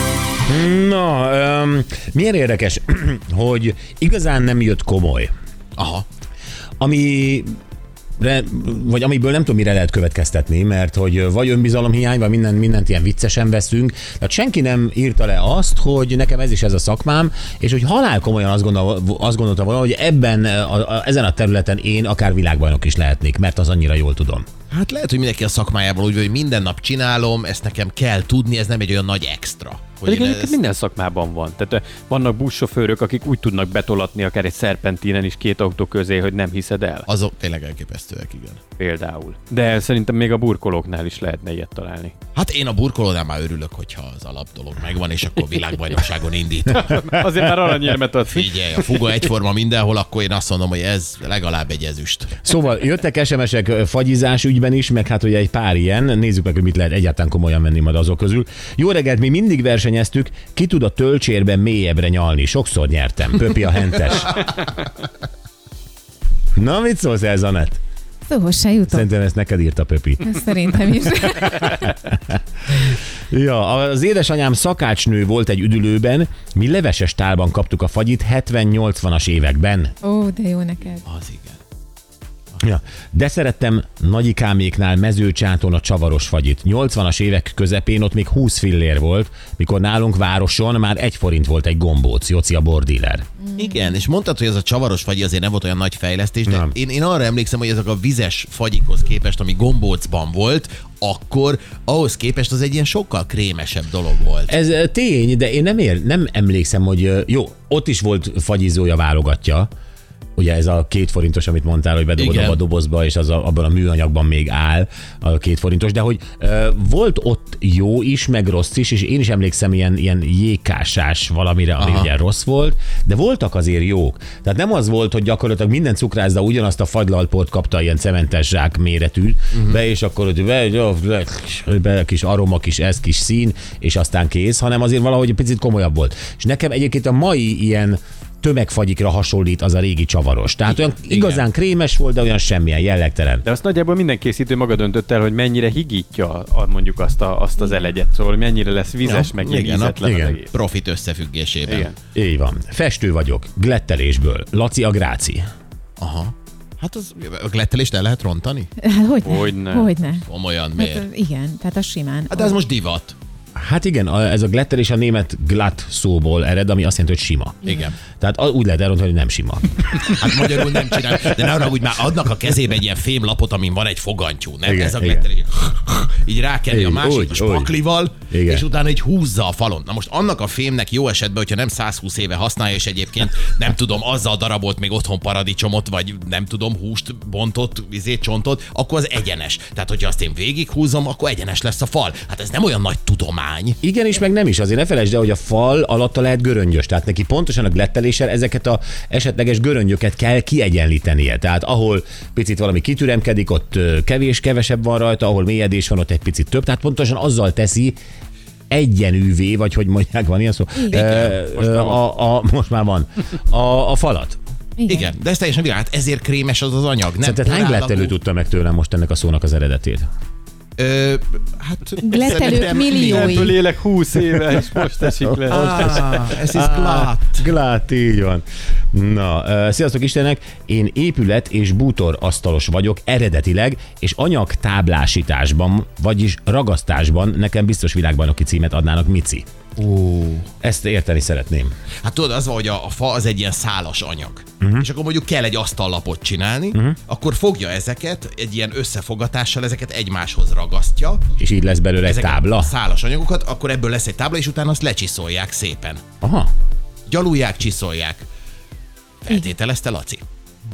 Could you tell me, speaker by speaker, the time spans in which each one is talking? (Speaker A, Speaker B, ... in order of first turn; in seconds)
Speaker A: 0.5-5.3, 6.8-7.5, 8.2-24.5, 52.4-64.4, 66.5-67.8, 68.9-70.4, 71.5-79.9, 82.6-93.2, 96.5-96.7, 104.5-109.7, 110.4-143.4, 150.0-150.4, 152.1-155.4, 163.6-170.3, 174.6-175.2, 176.7-177.7, 178.3-178.6, 193.8-208.0, 208.7-214.4, 217.2-220.1, 225.4-239.4, 240.6-241.7, 244.6-244.9, 251.4-252.7, 256.2-256.5
Speaker B: 5.8-6.0, 24.7-30.6, 37.1-38.6, 42.3-47.1, 48.3-52.4, 81.0-81.6, 93.5-104.5, 112.2-112.6, 121.8-122.1, 129.5-129.8, 140.7-141.4, 149.0-151.9, 156.0-158.7, 160.2-161.1, 162.3-163.1, 167.6-168.0, 170.0-193.8, 210.9-211.4, 214.9-218.1, 220.8-223.6, 225.5-227.4, 239.8-240.5, 242.0-251.2, 252.0-256.0, 257.1-258.3, 259.2-260.2
Speaker C: 30.1-37.1, 38.8-42.1, 46.7-49.0, 143.4-150.5, 151.7-152.0, 159.2-159.9, 211.5-212.0, 223.0-225.7
Speaker D: 68.3-69.1, 70.2-71.8, 80.0-81.0, 158.8-160.2, 160.8-162.6, 214.8-215.1, 222.0-223.5